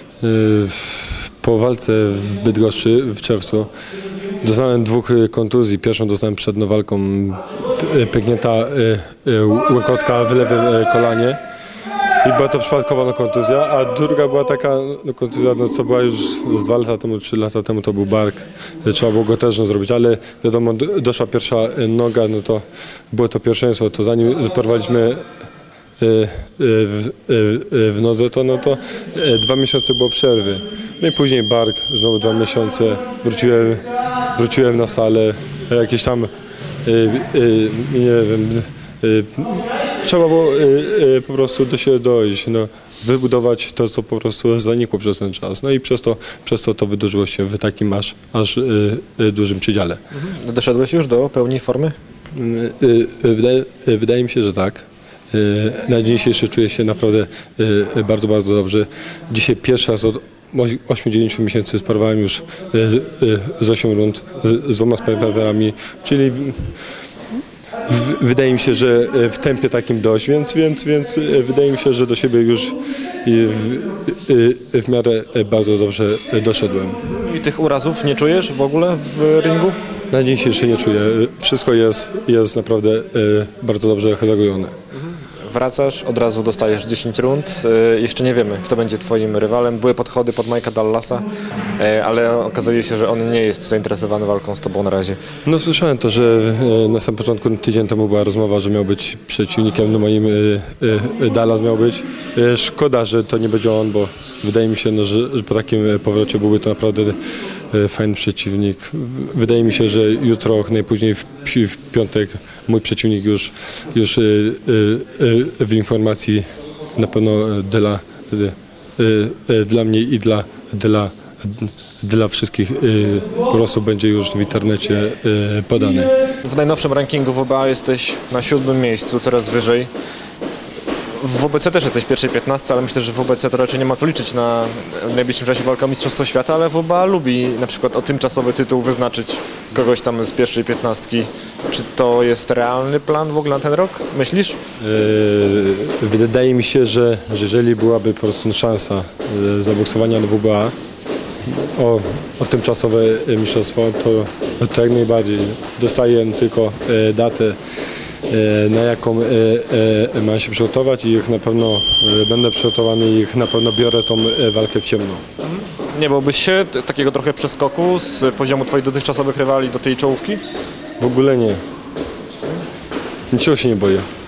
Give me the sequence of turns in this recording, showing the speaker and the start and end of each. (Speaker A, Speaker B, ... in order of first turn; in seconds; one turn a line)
Speaker A: 0.2-3.7
Speaker A: 4.4-11.4
Speaker A: 12.2-25.2
Speaker A: 26.0-36.3
Speaker A: 36.9-50.0
Speaker B: 50.1-52.0
Speaker A: 52.3-66.7
Speaker A: 67.9-77.0
Speaker B: 77.0-79.8
Speaker A: 80.1-84.7
Speaker B: 85.0-91.2
Speaker B: 91.8-95.2
Speaker A: 95.5-107.2
Speaker A: 107.7-126.1
Speaker B: 126.4-129.9
Speaker B: 131.2-144.6
Speaker A: 144.8-150.8
Speaker A: 151.4-157.6
Speaker A: 158.3-165.2
Speaker B: 165.4-170.4
Speaker A: 171.0-171.6
Speaker A: 173.3-174.1